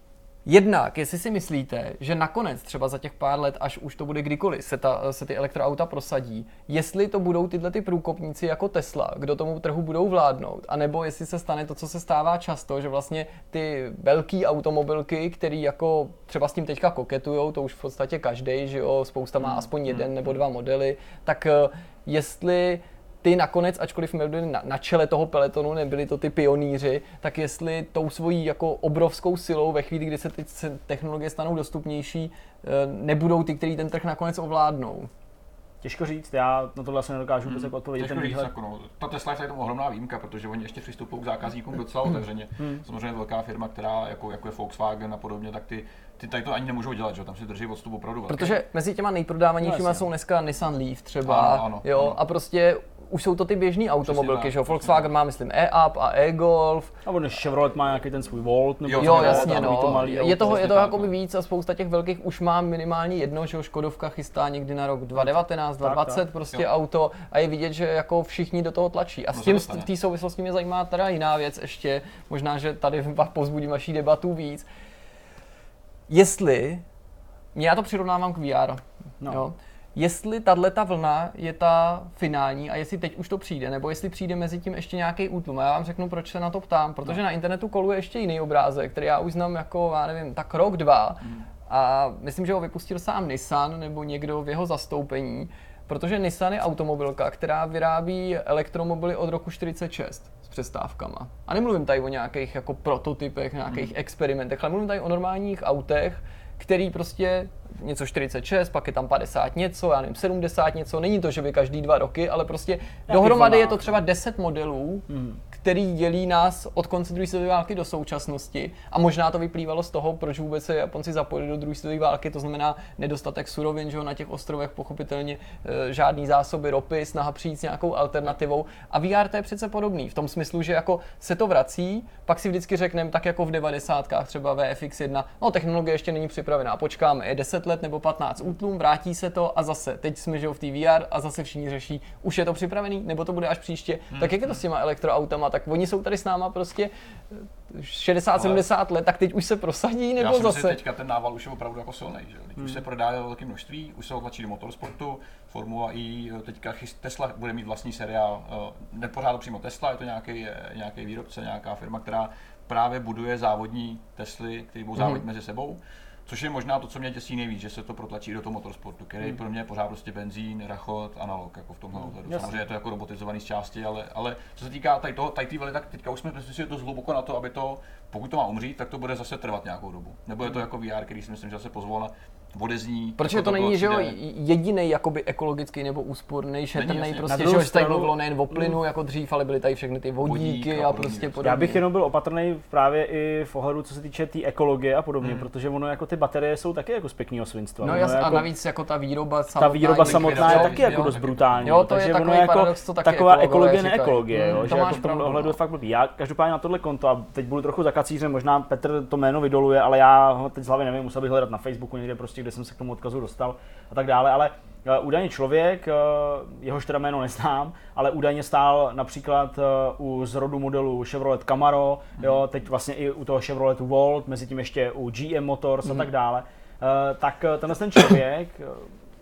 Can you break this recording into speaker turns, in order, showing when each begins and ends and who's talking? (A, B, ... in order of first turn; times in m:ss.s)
0:00.4-0:35.1 A
0:35.8-0:38.5 B
0:37.4-0:48.6 C
0:48.3-0:56.9 A
0:49.6-0:50.0 B
0:51.2-0:52.2 C
0:54.0-0:55.1 C
0:57.0-1:01.1 B
0:58.8-1:00.9 C
0:59.0-1:14.6 A
1:05.8-1:06.2 B
1:09.3-1:09.9 C
1:16.1-1:16.8 A
1:17.5-2:30.8 A
1:53.1-1:54.0 B
1:55.1-1:55.4 B
2:24.1-2:24.6 C
2:30.2-3:04.2 C
2:45.0-2:45.2 A
2:52.2-2:52.6 B
3:03.2-3:11.8 A
3:06.7-3:07.6 C
3:07.3-3:08.8 B
3:10.2-3:11.4 C
3:11.4-3:18.5 B
3:15.2-3:15.5 C
3:17.8-3:25.6 A
3:19.6-3:48.9 B
3:20.0-3:21.8 C